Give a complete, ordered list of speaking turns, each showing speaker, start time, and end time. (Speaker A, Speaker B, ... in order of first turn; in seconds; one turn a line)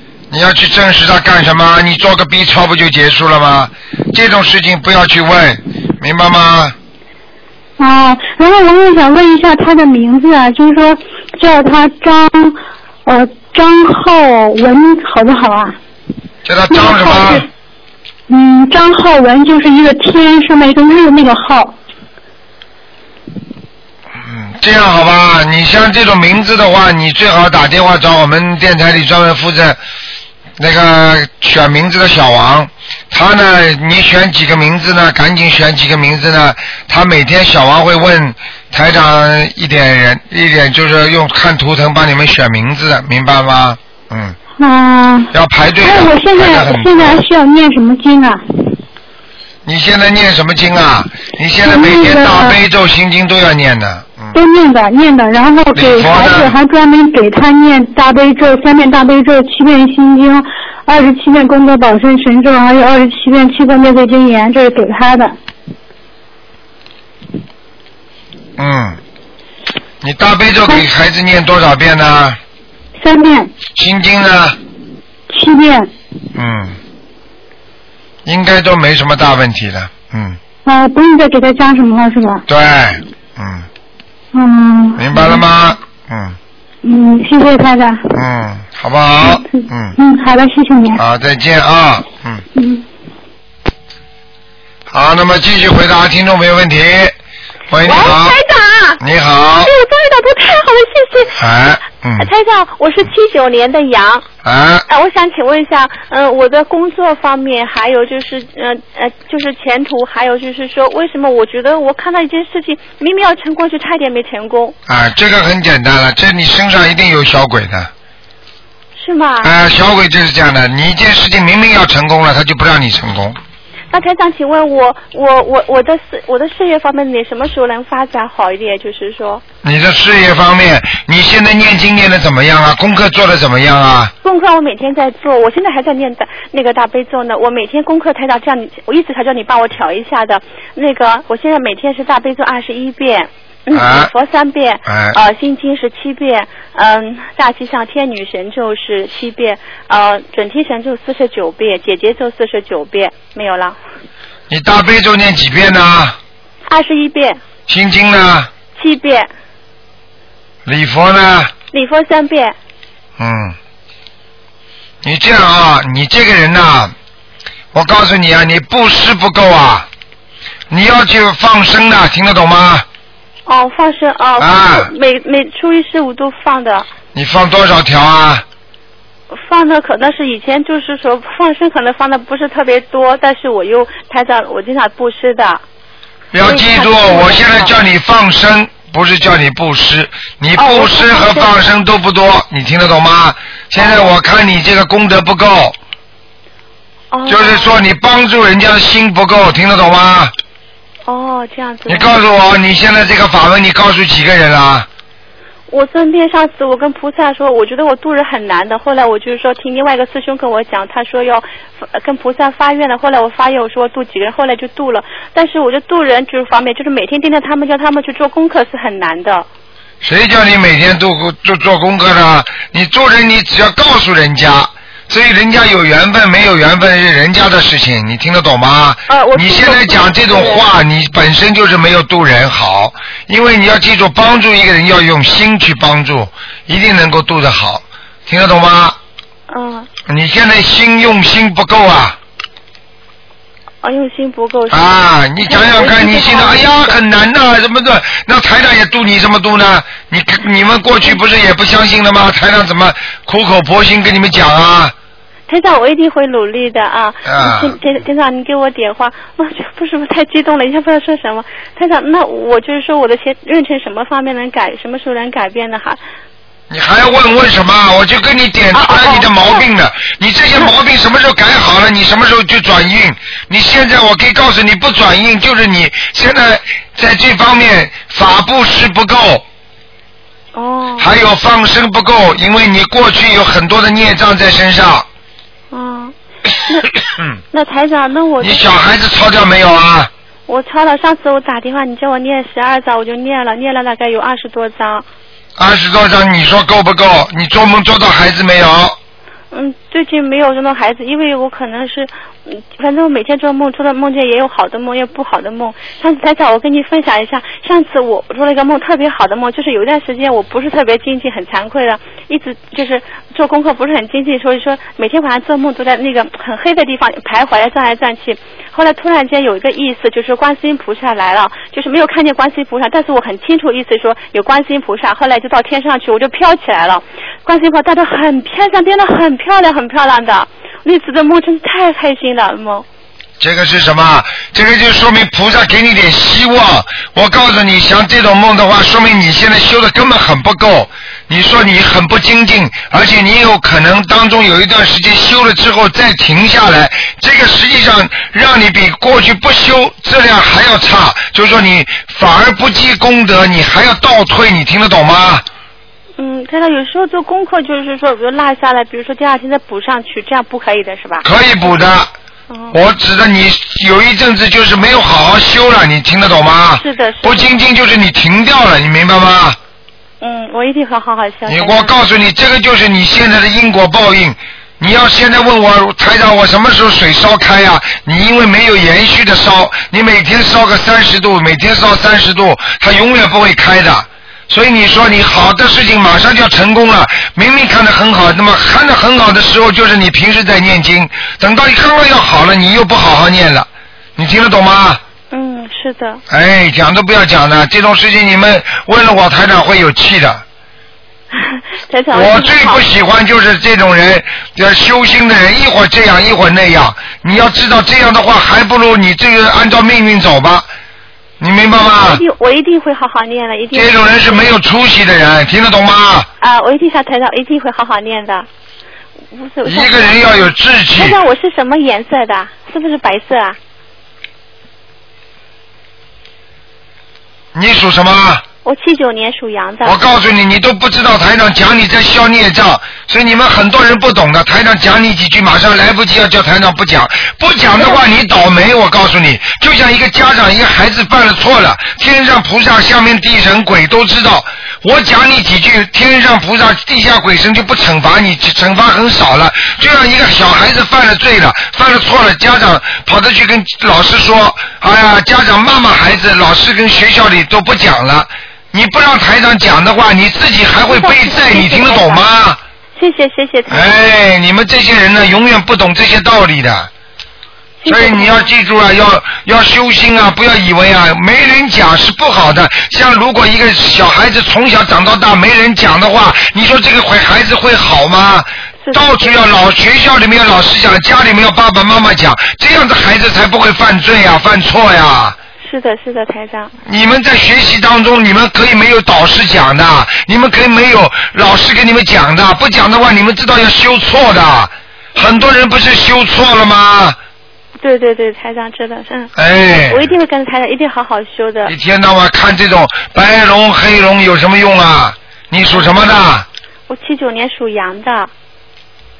Speaker A: 0.3-6.8
Speaker B: 7.8-15.8
Speaker A: 16.4-17.4
Speaker B: 16.7-17.5
Speaker B: 18.3-21.7
Speaker A: 24.2-29.8
Speaker A: 30.6-44.4
Speaker B: 44.6-48.7
Speaker A: 45.3-47.2
Speaker A: 49.6-54.4
Speaker B: 51.6-52.6
Speaker B: 54.3-65.3
Speaker A: 55.7-56.5
Speaker A: 68.6-69.0
Speaker A: 70.0-72.4
Speaker B: 73.0-73.5
Speaker A: 73.8-74.6
Speaker B: 75.3-75.9
Speaker A: 76.3-76.8
Speaker A: 78.2-80.4
Speaker B: 80.6-82.4
Speaker A: 82.5-83.7
Speaker B: 84.3-85.4
Speaker A: 85.0-86.4
Speaker B: 86.8-88.1
Speaker A: 88.1-89.9
Speaker B: 89.2-91.0
Speaker A: 90.9-92.4
Speaker B: 92.5-92.8
Speaker A: 94.9-97.2
Speaker A: 97.7-98.3
Speaker C: 97.8-99.0
Speaker A: 99.0-99.7
Speaker C: 99.6-101.4
Speaker A: 101.3-102.3
Speaker C: 102.2-104.2
Speaker A: 104.4-104.8
Speaker C: 104.9-114.8
Speaker A: 114.9-117.9
Speaker C: 119.0-119.5
Speaker A: 119.4-123.4
Speaker C: 123.9-129.4
Speaker A: 129.6-134.1
Speaker C: 134.2-153.8
Speaker A: 143.7-144.1
Speaker A: 144.8-145.2
Speaker A: 154.5-156.2
Speaker C: 156.7-157.4
Speaker A: 157.7-158.5
Speaker C: 158.7-159.3
Speaker A: 160.7-161.5
Speaker C: 161.7-162.5
Speaker A: 163.2-163.6
Speaker A: 165.0-166.9
Speaker A: 167.7-169.9
Speaker A: 170.7-172.8
Speaker C: 173.5-176.9
Speaker A: 174.4-174.9
Speaker A: 177.1-178.4
Speaker C: 179.3-185.6
Speaker A: 186.3-195.8
Speaker C: 186.4-187.8
Speaker C: 190.6-191.5
Speaker C: 193.8-194.1
Speaker C: 197.1-197.7
Speaker A: 197.3-200.3
Speaker C: 201.1-202.2
Speaker A: 201.9-204.9
Speaker C: 205.7-219.5
Speaker A: 220.0-239.0
Speaker C: 229.1-230.7
Speaker C: 239.5-239.9
Speaker A: 240.1-242.2
Speaker C: 243.8-247.0
Speaker A: 244.7-254.9
Speaker C: 255.5-266.0
Speaker A: 257.2-257.7
Speaker A: 266.7-279.4
Speaker C: 268.7-269.7
Speaker C: 280.5-281.1
Speaker A: 281.0-285.1
Speaker C: 285.7-286.1
Speaker C: 286.6-287.0
Speaker C: 287.5-288.6
Speaker A: 288.4-290.1
Speaker C: 290.5-295.0
Speaker A: 295.6-299.0
Speaker C: 299.5-332.8
Speaker A: 333.4-355.4
Speaker C: 356.2-361.2
Speaker A: 361.2-362.1
Speaker C: 362.5-362.8
Speaker A: 362.7-369.6
Speaker C: 366.8-367.5
Speaker C: 370.2-372.0
Speaker A: 371.5-395.0
Speaker C: 395.3-396.2
Speaker A: 396.3-400.4
Speaker C: 401.3-402.8
Speaker A: 402.1-410.7
Speaker A: 411.4-412.2
Speaker C: 411.8-414.5
Speaker A: 413.7-416.3
Speaker C: 416.4-418.5
Speaker C: 419.3-423.6
Speaker A: 419.6-421.2
Speaker A: 427.5-428.4
Speaker C: 428.6-430.0
Speaker A: 429.8-462.6
Speaker C: 460.9-462.2
Speaker C: 462.9-463.9
Speaker A: 463.7-466.9
Speaker C: 467.8-468.4
Speaker A: 467.9-485.4
Speaker C: 478.8-479.4
Speaker C: 485.6-486.7
Speaker A: 486.8-497.2
Speaker C: 497.8-499.3
Speaker A: 499.4-500.1
Speaker C: 499.9-501.7
Speaker A: 501.6-506.4
Speaker C: 505.7-506.1
Speaker C: 506.9-508.3